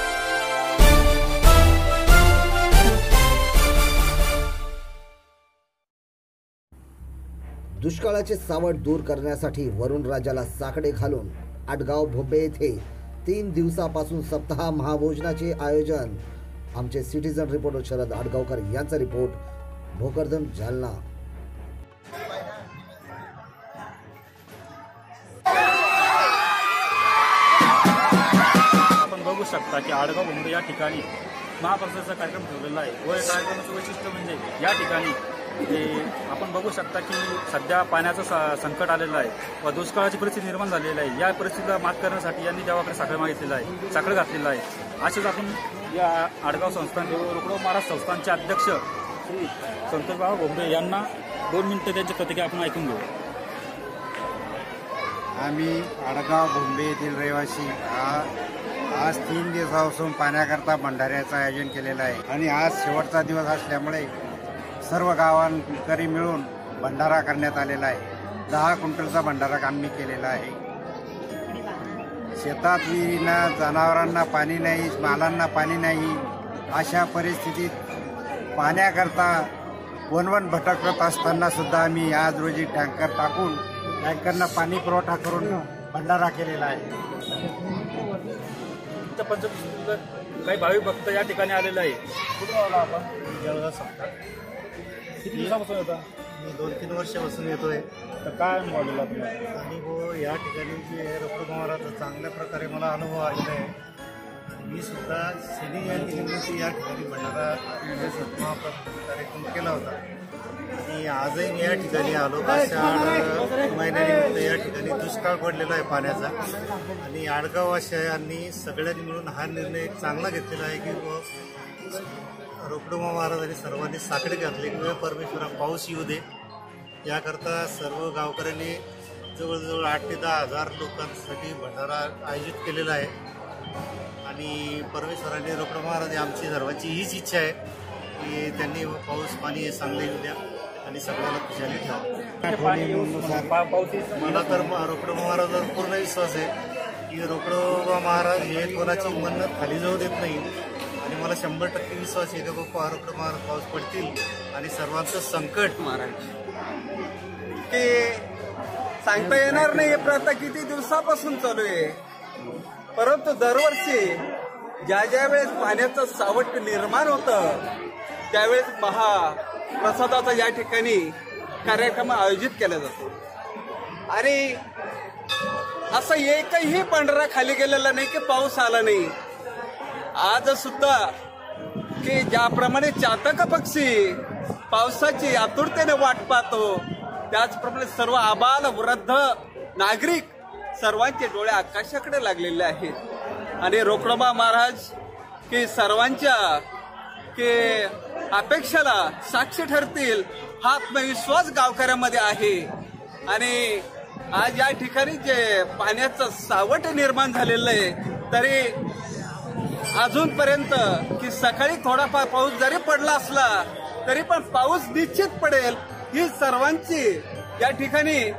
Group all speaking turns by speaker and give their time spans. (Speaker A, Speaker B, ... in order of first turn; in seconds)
Speaker A: 7.8-16.2, 16.8-19.4, 19.9-21.0
Speaker B: 28.9-31.1, 31.6-53.1, 89.0-93.1, 95.2-96.1, 98.2-99.4, 142.4-144.8
Speaker C: 55.4-58.3, 58.9-64.1, 64.8-70.6, 72.4-77.7, 78.5-79.5, 80.1-86.9, 142.4-143.5
Speaker D: 93.2-94.1, 96.3-97.9, 99.5-103.7, 104.5-110.0, 110.8-116.4, 117.0-121.2, 122.6-126.2, 127.0-128.8, 129.3-133.1, 134.2-137.6, 138.2-142.1, 144.1-146.5, 147.1-155.8
Speaker E: 155.8-156.3, 157.7-158.3, 159.0-162.0, 162.9-164.2, 164.9-167.7, 168.3-171.1, 171.6-173.1, 174.1-174.6, 175.9-179.1, 180.2-181.1, 182.0-186.8, 187.3-189.2, 189.8-192.9, 193.6-194.9, 195.5-196.6, 197.3-202.7, 203.3-208.7, 210.0-213.5, 214.1-218.2